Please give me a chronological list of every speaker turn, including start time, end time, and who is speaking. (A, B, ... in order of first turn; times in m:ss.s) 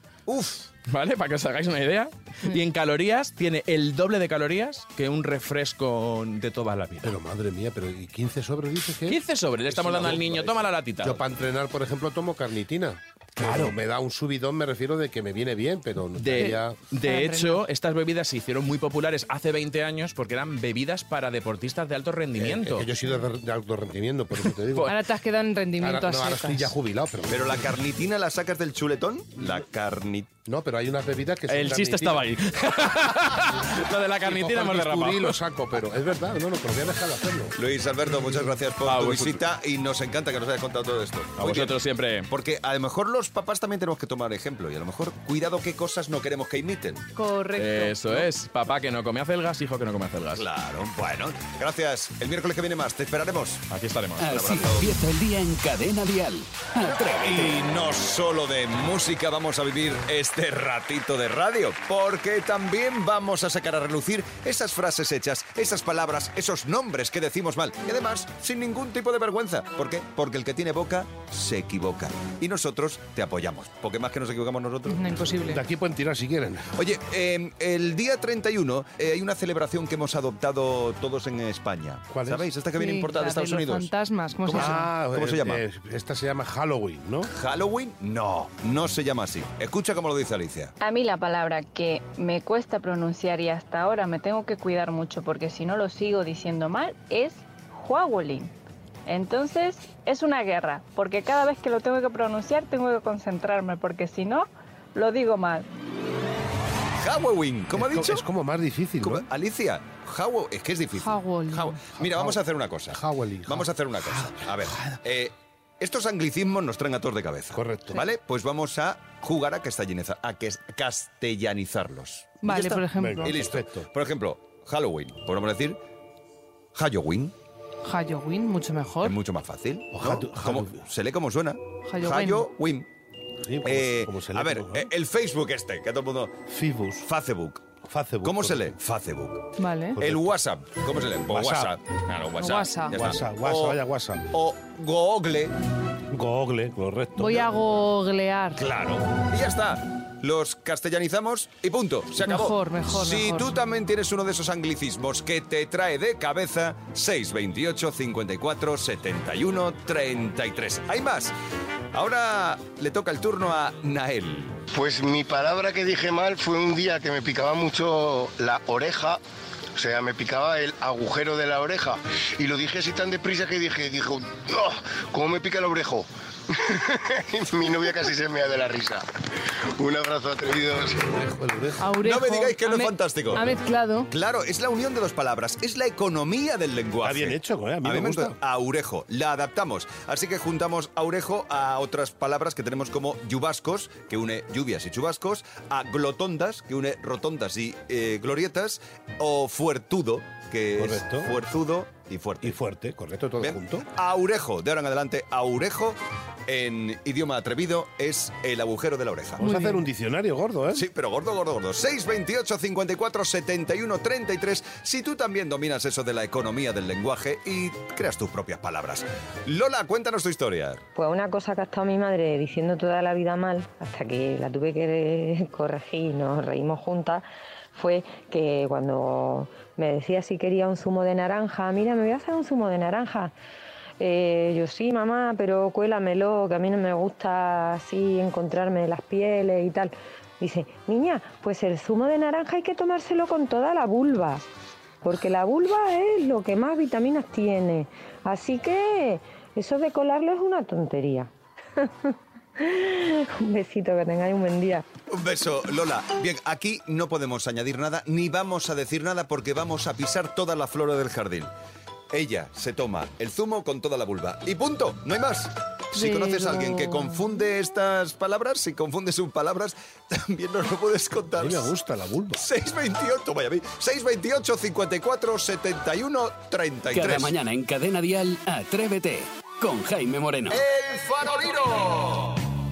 0:00.3-0:00.5 A
0:00.3-0:07.1 B
0:07.0-0:16.8 C
0:09.1-0:11.2 B
0:13.4-0:13.7 B
0:16.2-0:22.9 B
0:16.4-0:17.6 D
0:22.4-0:25.0 C
0:24.8-0:26.7 D
0:25.8-0:27.7 C
0:27.3-0:30.3 A
0:30.5-0:32.3 C
0:31.5-0:35.4 B
0:34.2-0:37.5 C
0:37.6-0:47.0 A
0:38.8-0:39.4 B
0:41.4-0:42.3 B
0:47.1-0:48.3 D
0:47.6-0:50.4 B
0:50.4-0:53.6 A
0:53.7-0:54.3 B
0:54.2-0:57.7 E
0:54.2-0:54.9 A
0:57.0-1:15.3 A
1:14.8-1:15.6 D
1:15.5-1:16.7 C
1:16.7-1:23.9 A
1:22.1-1:22.5 C
1:22.8-1:24.9 D
1:24.4-1:25.6 A
1:24.5-1:27.3 C
1:27.3-1:30.7 A
1:30.8-1:38.5 F
1:39.0-1:45.7 F
1:47.0-1:48.2 A
1:47.7-1:49.2 C
1:49.0-2:05.8 A
1:51.0-1:51.8 D
1:51.9-1:55.0 C
1:57.5-1:58.0 C
2:02.4-2:03.4 D
2:02.9-2:03.9 C
2:06.7-2:07.3 A
2:07.8-2:09.2 D
2:09.0-2:12.9 A
2:09.9-2:10.8 C
2:11.8-2:12.5 D
2:13.4-2:14.9 C
2:13.6-2:16.4 A
2:16.5-2:17.0 C
2:17.0-2:17.6 A
2:17.8-2:18.8 C
2:18.2-2:23.8 A
2:19.6-2:20.0 D
2:19.9-2:20.3 C
2:21.3-2:21.7 C
2:22.4-2:22.9 D
2:22.9-2:24.3 C
2:24.3-2:25.5 A
2:26.1-2:27.5 C
2:27.2-2:28.6 D
2:28.6-2:41.3 A
2:32.2-2:33.5 D
2:41.9-2:44.6 A
2:44.7-2:49.2 G
2:49.7-3:01.1 G
3:01.1-3:01.9 C
3:01.8-3:04.1 D
3:02.0-3:03.5 A
3:04.1-3:22.6 A
3:07.0-3:08.4 C
3:20.8-3:21.3 C
3:22.4-3:23.9 C
3:23.4-3:29.4 A
3:29.4-3:30.9 C
3:30.7-3:40.8 A
3:41.0-3:53.3 H
3:54.0-4:04.4 H
4:05.0-4:14.8 H
4:15.1-4:21.5 A
4:22.1-4:31.7 A
4:25.9-4:27.3 D
4:31.4-4:32.5 C
4:32.4-4:37.3 A
4:36.9-4:40.6 E
4:40.5-4:42.4 A